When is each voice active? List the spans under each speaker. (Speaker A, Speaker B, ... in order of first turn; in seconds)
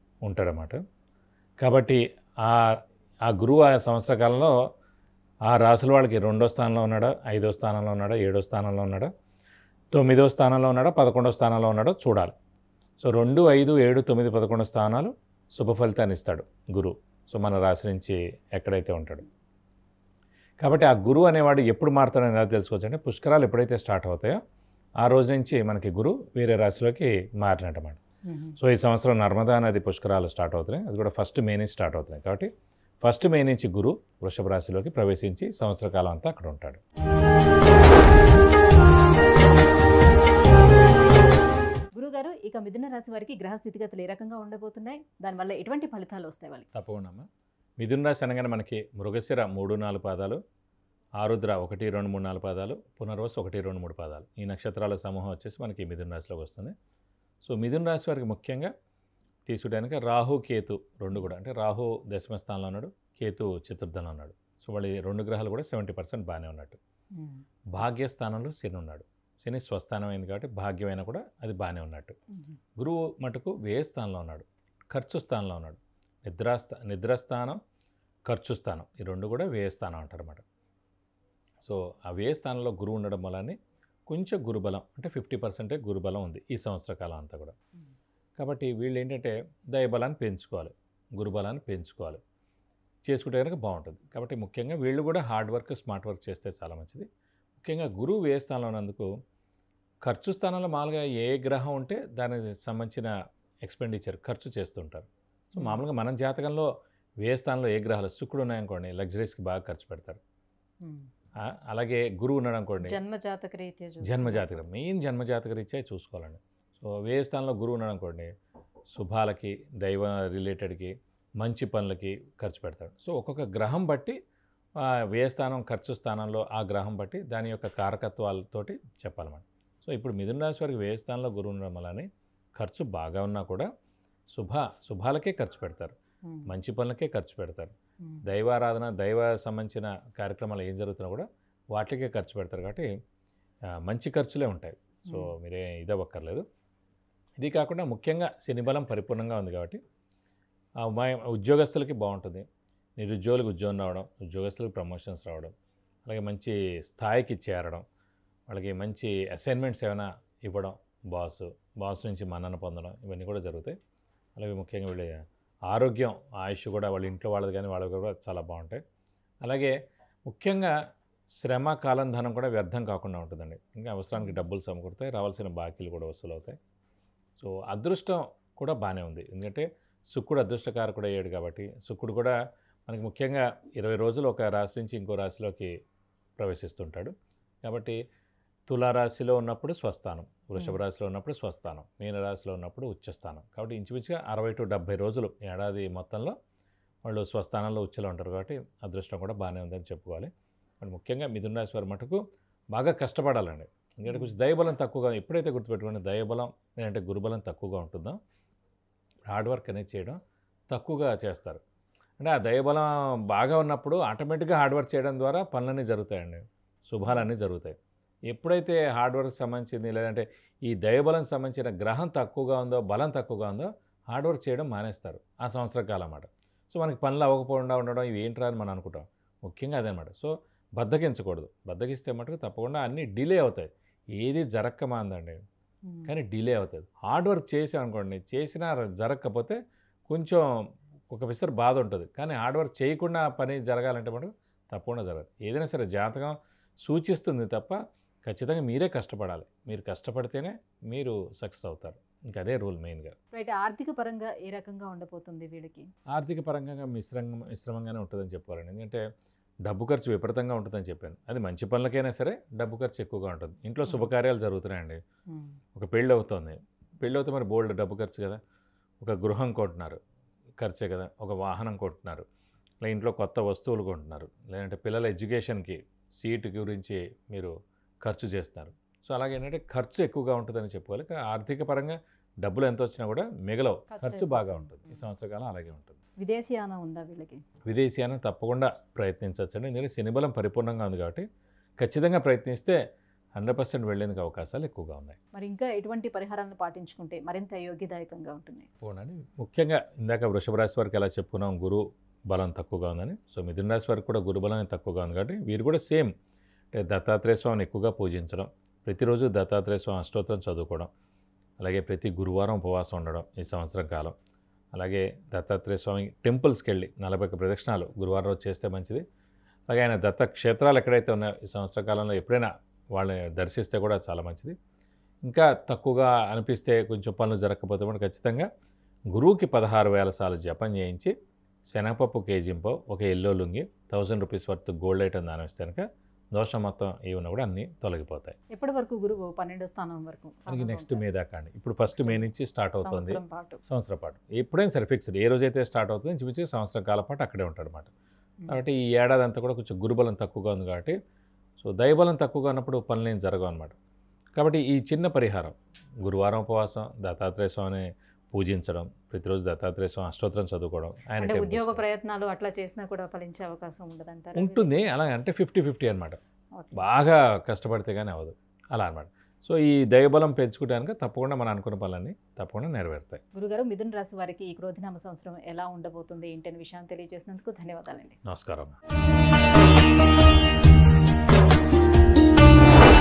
Speaker A: 0.2-0.8, 1.6-4.5, 5.5-9.1, 9.9-12.3, 13.0-19.3, 20.6-24.4, 25.0-28.0, 28.6-32.5, 33.0-36.8, 46.8-47.3, 47.8-50.4, 51.2-56.8, 57.4-58.7, 59.5-66.8, 67.7-72.2, 72.8-77.6, 78.3-80.4, 81.6-83.6, 84.1-87.5, 88.4-92.2, 93.1-97.1, 97.6-99.1, 100.1-103.1, 103.7-106.7, 107.2-110.2, 111.7-113.0, 114.0-118.3, 118.9-124.2, 124.8-133.7, 134.3-135.9, 136.5-137.7, 138.2-142.9, 143.8-146.4, 147.4-149.8, 150.8-152.4, 153.0-155.5, 156.1-157.8, 158.5-163.8, 164.4-165.2, 165.7-168.8, 169.4-169.8, 170.3-170.7, 171.4-176.6, 177.4-182.4, 182.9-185.7, 186.4-187.1, 187.6-188.0, 188.7-196.4, 197.1-202.2, 202.7-208.2, 209.3-210.2, 210.7-211.6, 212.2-217.8, 218.3-235.4, 236.1-239.6, 240.1-240.4, 241.1-253.2, 256.1-259.0, 259.7-265.0, 265.8-268.4, 269.0-270.0, 270.6-272.3, 272.8-286.0, 287.7-291.2, 291.8-292.8, 293.4-295.2, 298.8-306.1, 306.7-310.9, 311.6-314.1, 314.8-319.0, 319.7-324.6, 325.3-328.5, 329.1-331.1, 331.7-338.4, 340.5-347.9, 348.5-351.0, 351.6-353.7, 354.4-361.8, 364.4-366.2, 366.8-373.2, 378.3-378.8
Speaker B: 28.3-28.6, 42.0-46.7, 67.2-67.4, 105.5-105.8, 112.8-114.5, 136.3-136.6, 145.1-145.3, 174.2-174.5, 204.1-204.4, 235.9-236.1, 253.3-255.9, 263.9-264.1, 283.9-284.9, 286.2-287.4, 295.3-298.7, 338.5-341.1, 341.9-343.6, 361.2-364.8, 366.6-366.8, 373.3-378.2